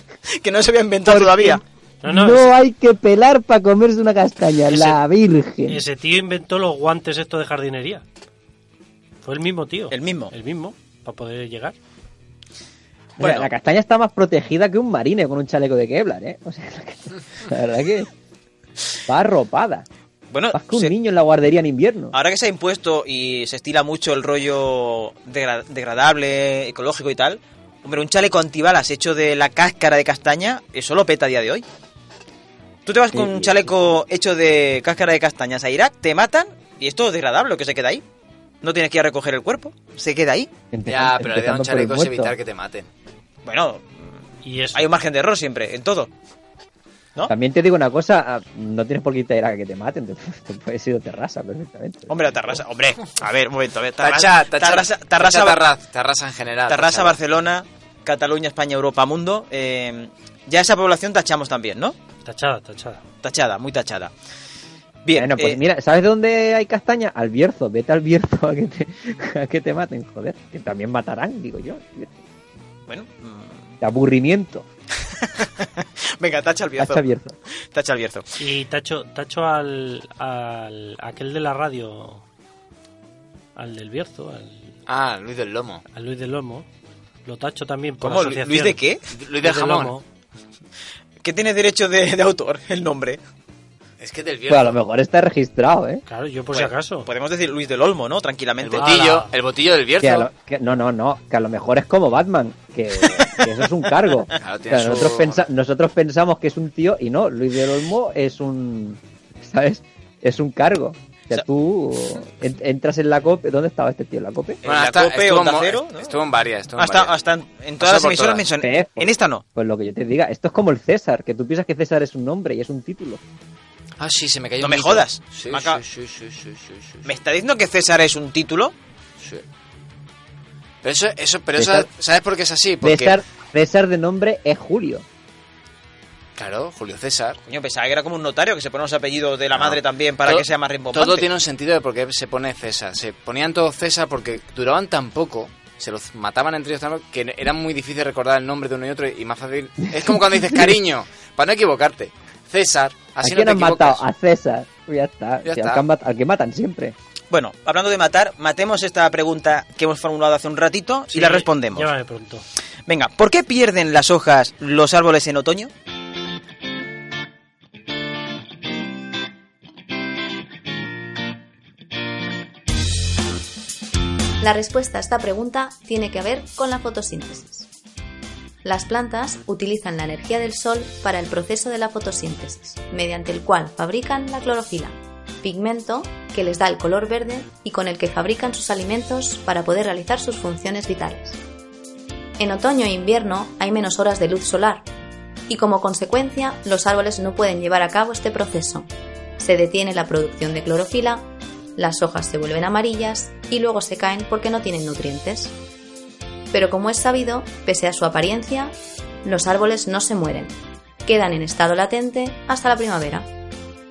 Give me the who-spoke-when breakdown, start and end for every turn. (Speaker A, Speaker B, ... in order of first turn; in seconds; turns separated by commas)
Speaker A: 0.3-1.6, Speaker B: 1.1-5.8, Speaker C: 2.0-2.5, Speaker C: 4.7-5.0, Speaker C: 5.7-8.0, Speaker C: 9.2-11.8, Speaker A: 9.9-10.3, Speaker B: 13.2-18.1, Speaker A: 13.2-13.5, Speaker B: 19.1-19.9, Speaker A: 20.3-20.9, Speaker B: 20.5-22.1, Speaker A: 22.1-31.6, Speaker A: 32.8-38.0, Speaker B: 33.1-33.7, Speaker A: 38.6-40.5, Speaker B: 40.7-42.3, Speaker D: 40.9-42.9, Speaker A: 43.4-44.1, Speaker C: 44.4-44.8, Speaker A: 44.7-46.1, Speaker B: 47.3-52.6, Speaker A: 52.1-55.6, Speaker D: 54.0-57.2, Speaker A: 56.7-62.0, Speaker C: 62.2-63.0, Speaker A: 63.2-64.1, Speaker A: 65.0-65.6, Speaker B: 65.1-72.1, Speaker A: 72.9-73.7, Speaker B: 73.8-74.7, Speaker A: 75.4-75.7, Speaker A: 76.2-77.0, Speaker B: 76.8-77.3, Speaker A: 77.7-78.2, Speaker C: 78.4-82.2, Speaker C: 83.5-84.7, Speaker D: 84.9-85.8, Speaker C: 85.9-86.7, Speaker C: 87.2-88.8, Speaker A: 88.0-89.0, Speaker D: 89.1-89.9, Speaker C: 89.4-90.0, Speaker A: 91.2-93.2, Speaker D: 94.0-94.8, Speaker B: 94.5-96.0, Speaker C: 96.1-97.1, Speaker A: 96.5-99.0, Speaker D: 98.6-100.3, Speaker C: 98.8-99.3, Speaker B: 100.0-114.6, Speaker D: 104.4-105.5, Speaker A: 114.6-116.2, Speaker D: 114.6-117.2, Speaker A: 116.8-119.4, Speaker D: 117.8-118.4, Speaker B: 118.6-123.2, Speaker D: 124.0-127.1, Speaker A: 124.6-125.8, Speaker A: 127.0-128.7, Speaker D: 130.8-133.2, Speaker B: 131.6-131.9, Speaker B: 132.8-135.0, Speaker D: 136.4-137.4, Speaker A: 137.4-141.3, Speaker D: 139.6-154.0, Speaker B: 153.2-156.9, Speaker D: 155.4-155.8, Speaker A: 157.3-161.9, Speaker C: 161.1-162.4, Speaker A: 162.9-165.7, Speaker E: 174.4-177.7, Speaker E: 178.6-191.4, Speaker E: 192.4-194.8, Speaker E: 195.5-205.5, Speaker E: 206.5-213.3